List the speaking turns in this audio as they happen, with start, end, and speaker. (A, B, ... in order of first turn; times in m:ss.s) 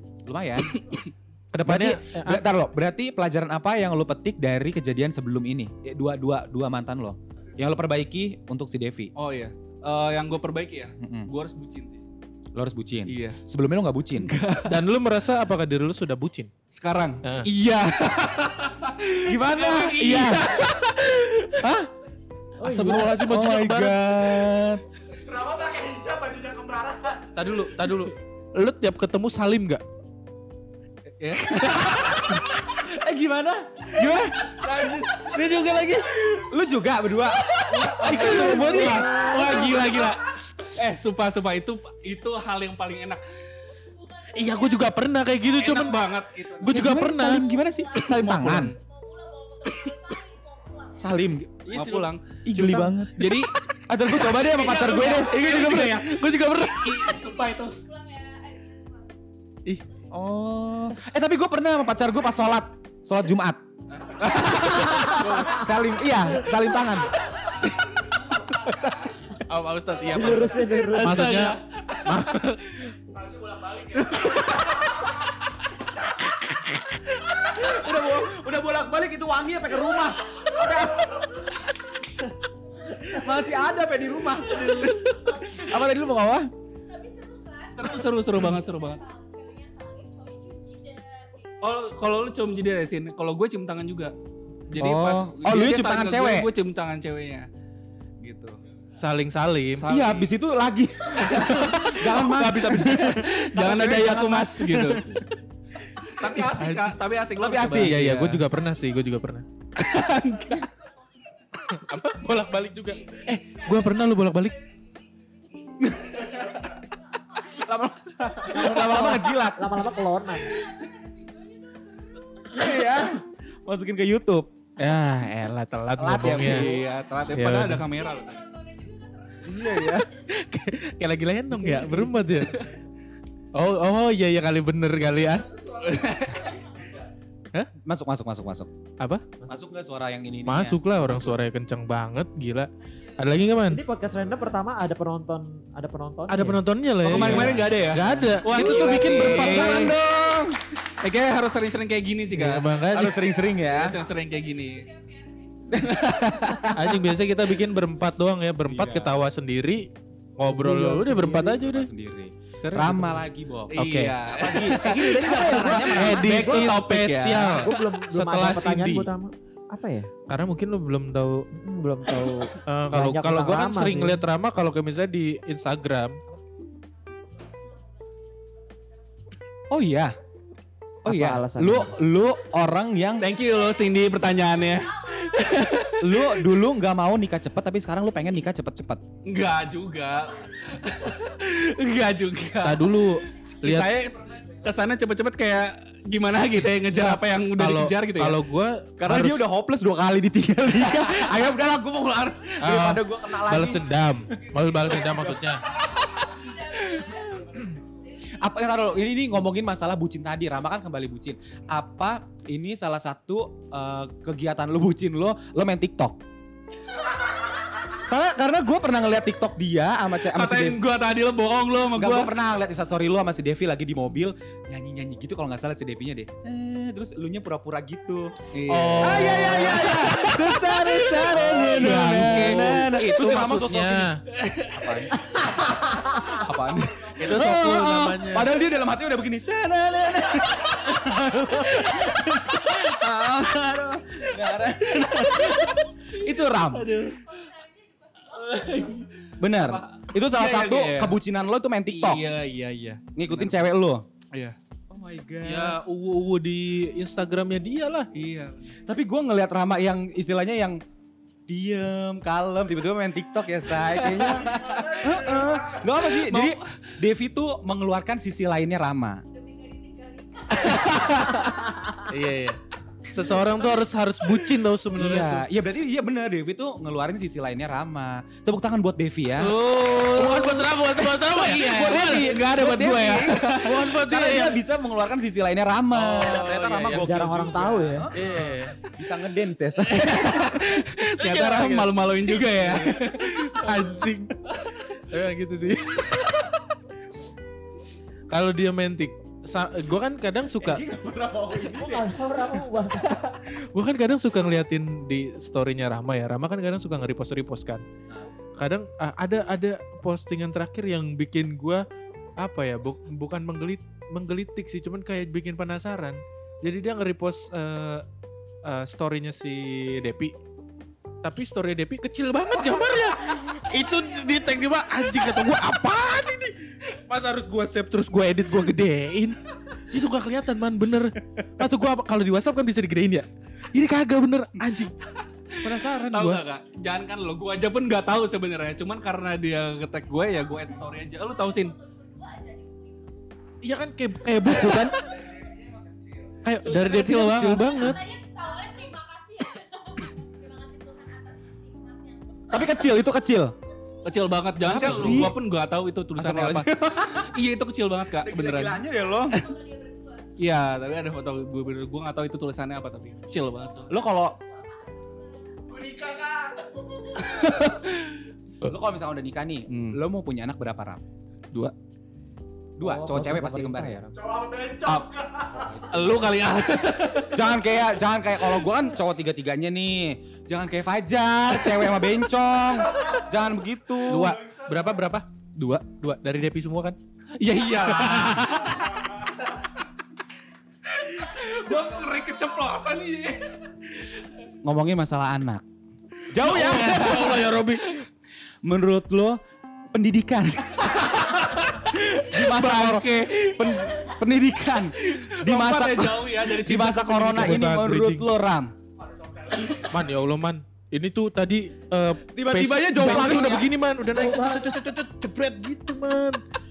0:00.2-0:00.7 A
0:00.7-0:01.1 B
0:01.5-0:02.4 C
0:01.6-0:09.1 A
0:09.2-0:12.0 B
0:11.0-0:11.3 A
0:12.5-0:14.3 A
0:13.1-0:13.4 B
0:14.2-0:14.8 B
0:14.6-0:16.5 C
0:16.7-0:21.6 B
0:18.4-0:18.7 D
0:19.2-0:20.6 A
0:20.6-0:21.0 D
0:21.6-0:21.9 C
0:22.0-0:22.5 D
0:22.6-0:23.1 E
0:22.6-0:24.1 C
0:22.6-0:24.8 A
0:25.2-0:27.4 F
0:27.4-0:29.8 C
0:31.2-0:32.4 B
0:31.6-0:39.8 A
0:35.2-0:36.1 C
0:37.7-0:40.8 C
0:37.7-0:43.2 B
0:38.1-0:39.1 E
0:43.7-0:51.3 D
0:44.3-0:46.0 C
0:45.5-0:46.8 B
0:46.6-0:47.4 C
0:46.7-0:48.7 A
0:48.1-0:48.8 B
0:51.0-0:51.8 A
0:51.7-0:53.4 C
0:51.7-0:52.2 B
0:52.4-0:53.3 A
0:53.2-0:53.5 B
0:53.9-0:56.0 A
0:54.3-0:57.8 B
0:54.5-0:57.1 C
0:57.0-0:59.1 D
1:00.1-1:03.6 A
1:03.9-1:05.3 B
1:04.2-1:07.1 A
1:05.0-1:05.5 E
1:07.1-1:07.8 D
1:07.8-1:09.3 F
1:09.5-1:12.9 C
1:10.1-1:11.4 E
1:10.8-1:12.2 B
1:13.1-1:15.0 F
1:14.2-1:14.5 B
1:17.5-1:21.2 A
1:20.3-1:20.8 D
1:23.0-1:26.5 A
1:24.4-1:25.9 D
1:26.9-1:31.8 D
1:27.7-1:29.0 B
1:31.6-1:34.1 B
1:34.7-1:37.5 B
1:34.8-1:36.5 A
1:38.2-1:38.6 B
1:39.0-1:39.9 C
1:39.8-1:40.3 B
1:39.9-1:45.2 A
1:41.2-1:42.2 B
1:41.3-1:43.2 C
1:42.8-1:45.1 B
1:46.1-1:48.4 B
1:46.4-1:47.0 C
1:47.4-1:48.0 A
1:47.7-1:49.4 C
1:48.5-1:49.4 D
1:49.8-1:50.7 B
1:49.9-1:58.6 D
1:51.7-1:54.6 C
1:55.8-1:56.2 A
1:57.5-1:59.8 A
1:58.5-2:00.7 E
1:58.6-1:59.1 C
1:59.8-2:02.9 D
2:02.5-2:04.5 A
2:04.8-2:06.7 C
2:06.0-2:06.8 A
2:06.4-2:08.4 B
2:06.7-2:10.4 D
2:07.4-2:07.9 C
2:09.5-2:10.1 A
2:09.6-2:12.6 C
2:11.5-2:12.8 E
2:13.5-2:15.5 C
2:15.4-2:17.0 D
2:15.6-2:17.1 F
2:15.8-2:16.5 B
2:17.8-2:18.7 A
2:19.0-2:19.2 C
2:19.5-2:21.4 A
2:20.5-2:23.8 C
2:22.8-2:23.8 D
2:23.7-2:26.6 E
2:26.3-2:29.9 C
2:27.0-2:30.0 B
2:27.1-2:27.6 A
2:27.9-2:28.3 E
2:28.4-2:30.6 A
2:31.0-2:32.8 B
2:32.3-2:33.2 C
2:32.9-2:33.9 A
2:33.1-2:36.7 D
2:33.6-2:34.9 B
2:35.7-2:36.7 A
2:35.8-2:36.7 B
2:36.7-2:41.9 C
2:38.6-2:39.2 A
2:40.6-2:41.5 E
2:41.2-2:46.7 A
2:42.6-2:44.2 C
2:43.7-2:47.9 B
2:45.1-2:46.8 E
2:45.5-2:49.1 C
2:47.6-2:50.1 E
2:50.3-2:51.5 C
2:51.5-2:54.2 E
2:52.6-2:56.2 C
2:57.0-2:59.4 D
2:59.7-3:00.2 A
3:01.0-3:01.9 E
3:01.0-3:03.3 A
3:03.1-3:05.9 D
3:03.2-3:06.4 B
3:06.0-3:09.0 A
3:09.2-3:18.4 B
3:10.3-3:11.2 D
3:12.6-3:13.9 C
3:16.9-3:19.4 C
3:19.0-3:23.9 A
3:22.6-3:25.6 C
3:23.6-3:26.4 F
3:25.0-3:25.5 A
3:25.6-3:29.1 D
3:27.3-3:27.8 F
3:28.3-3:36.2 A
3:36.9-3:37.8 D
3:38.0-3:40.8 A
3:40.2-3:42.3 B
3:42.0-3:48.3 A
3:48.5-3:52.8 B
3:48.7-3:49.8 C
3:48.9-3:54.1 A
3:50.2-3:51.6 E
3:51.4-3:54.2 C
3:54.3-3:55.1 B
3:54.7-4:06.9 A
3:55.4-3:56.3 D
3:56.7-3:57.1 F
3:57.2-3:58.5 C
3:59.9-4:02.8 D
4:04.9-4:05.6 D
4:06.7-4:07.2 C
4:07.2-4:09.1 D
4:08.3-4:11.2 B
4:09.4-4:12.2 A
4:11.9-4:13.6 B
4:13.2-4:14.0 A
4:14.3-4:14.6 B
4:14.9-4:15.8 A
4:15.4-4:18.1 C
4:18.1-4:18.8 B
4:18.9-4:20.8 A
4:21.5-4:29.2 A
4:23.8-4:25.1 B
4:24.4-4:25.9 F
4:26.0-4:26.9 B
4:29.3-4:32.1 D
4:30.6-4:31.4 B
4:32.1-4:35.4 C
4:34.9-4:39.6 A
4:39.4-4:43.7 B
4:40.1-4:42.3 C
4:41.4-4:50.4 A
4:43.6-4:44.6 C
4:46.0-4:47.1 C
4:46.9-4:48.1 E
4:48.1-4:48.8 C
4:49.8-4:53.8 B
4:50.8-4:51.9 C
4:52.6-4:54.4 C
4:55.1-4:56.1 C
4:55.9-4:56.4 B
4:58.3-5:00.8 C
5:00.6-5:02.1 A
5:01.7-5:03.3 E
5:03.7-5:07.8 C
5:08.6-5:11.8 C
5:12.4-5:18.0 C
5:18.6-5:20.4 C
5:21.2-5:34.9 C
5:35.5-5:41.7 B
5:35.6-5:36.3 A
5:35.6-5:36.4 C
5:40.0-5:43.2 D
5:43.6-5:45.0 C
5:45.1-5:46.4 F
5:46.4-5:48.0 C
5:46.6-5:48.0 B
5:47.6-5:53.0 D
5:52.5-5:53.6 A
5:53.6-5:55.2 D
5:54.0-5:59.5 B
5:54.6-5:55.4 A
5:56.2-5:57.3 A
5:58.2-5:59.4 A
5:59.1-6:01.5 D
6:00.4-6:03.9 B
6:03.2-6:05.6 D
6:03.9-6:04.4 A
6:05.7-6:06.8 F
6:07.0-6:07.8 D
6:07.2-6:08.2 B
6:08.6-6:11.0 A
6:09.7-6:10.0 B
6:12.8-6:14.0 A
6:12.8-6:14.2 E
6:14.1-6:16.0 F
6:15.5-6:15.9 E
6:15.8-6:17.6 B
6:17.3-6:24.4 A
6:23.0-6:23.5 F
6:24.0-6:25.2 C
6:24.1-6:25.2 F
6:25.6-6:25.9 B
6:26.0-6:27.0 C
6:27.4-6:29.1 B
6:27.8-6:28.5 C
6:30.9-6:34.3 B
6:34.6-6:35.6 A
6:36.3-6:37.6 A
6:36.4-6:37.9 C
6:36.6-6:37.9 B
6:38.6-6:39.4 A
6:39.9-6:48.7 A
6:40.9-6:43.8 B
6:42.0-6:42.4 D
6:43.2-6:44.3 D
6:45.0-6:47.6 B
6:47.3-6:48.3 C
6:49.0-6:50.2 F
6:49.9-6:56.4 C
6:52.3-6:53.7 A
6:53.1-6:53.4 B
6:54.1-6:54.7 E